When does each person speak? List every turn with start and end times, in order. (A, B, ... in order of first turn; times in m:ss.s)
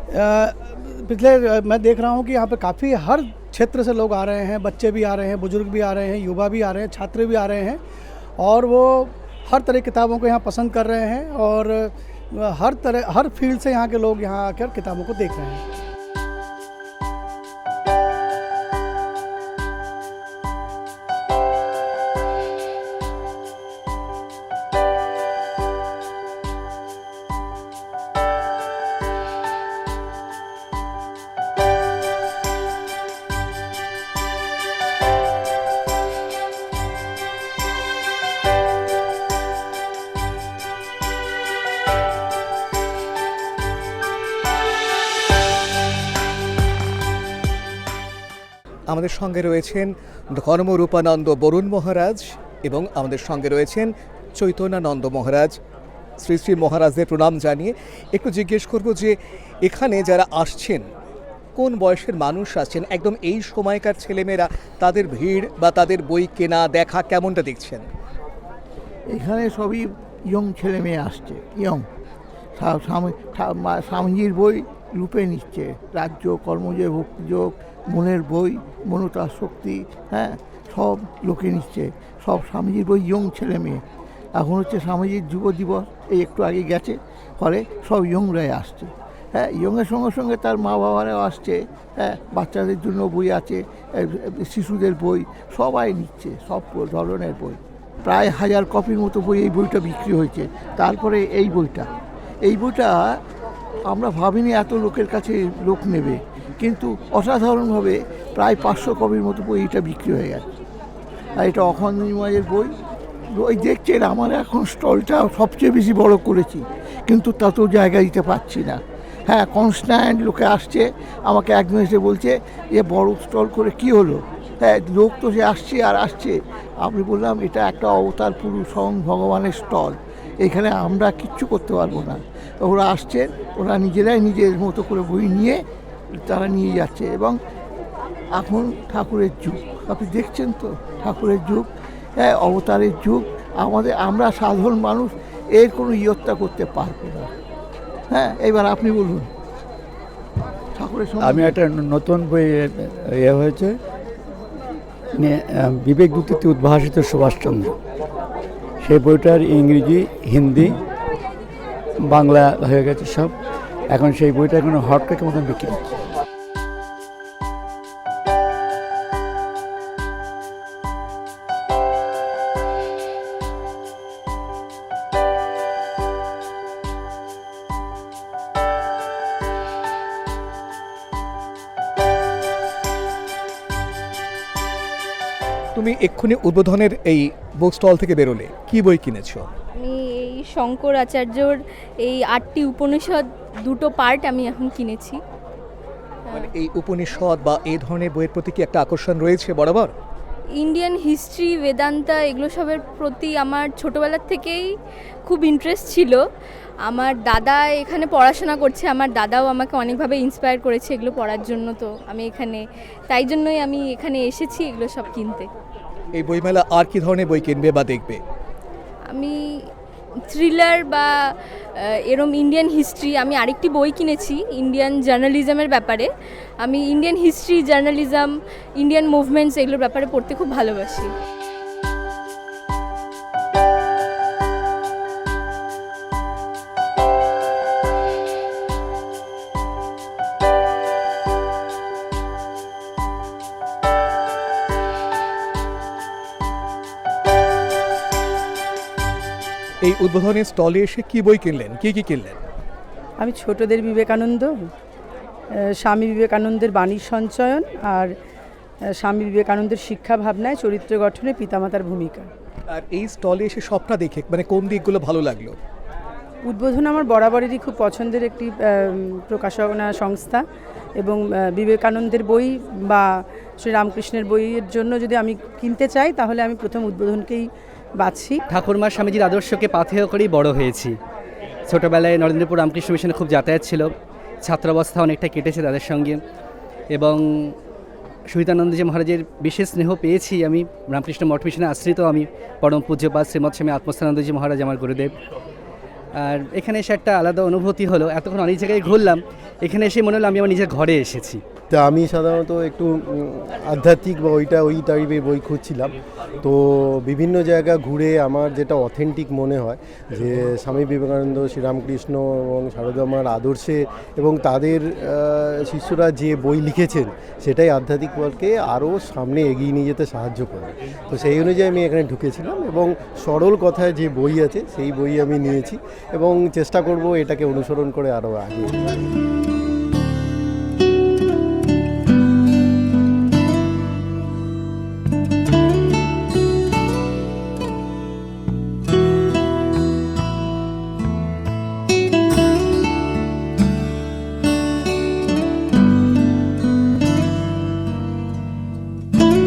0:00.1-0:07.8 A
0:08.4-0:15.6 A
0:48.9-0:55.6 B
0:56.2-1:00.9 B
1:01.6-1:07.8 B
1:09.1-1:11.9 C
1:12.6-1:23.8 C
1:24.3-1:41.8 C
1:42.4-1:43.2 C
1:43.9-1:50.4 C
1:51.4-1:52.7 C
1:53.3-2:15.6 C
2:16.2-2:17.4 C
2:18.3-2:21.7 C
2:22.2-2:27.3 C
2:28.1-2:29.3 C
2:30.7-2:31.6 C
2:31.2-2:33.7 D
2:35.2-2:37.7 D
2:38.8-2:40.7 D
2:42.1-2:43.3 D
2:43.9-2:45.9 D
3:05.7-3:09.4 B
3:09.8-3:15.2 E
3:16.3-3:19.9 B
3:20.5-3:24.7 E
3:25.2-3:26.2 E
3:26.8-3:35.5 E
3:36.1-3:38.2 B
3:39.1-3:39.6 E
3:40.3-3:46.1 E
3:46.6-3:51.1 E
4:09.8-4:12.4 B
4:13.2-4:14.7 F
4:15.8-4:18.1 F
4:19.0-4:22.3 F
4:22.7-4:25.6 B
4:26.4-4:30.4 F
4:31.0-4:33.1 F
4:33.6-4:37.5 F
4:38.0-4:38.4 F
4:38.5-4:40.9 G
4:41.7-4:43.9 G
4:44.4-4:46.2 G
4:46.9-4:47.5 G
4:48.3-4:55.1 G
4:56.2-5:01.4 G
5:01.7-5:28.8 H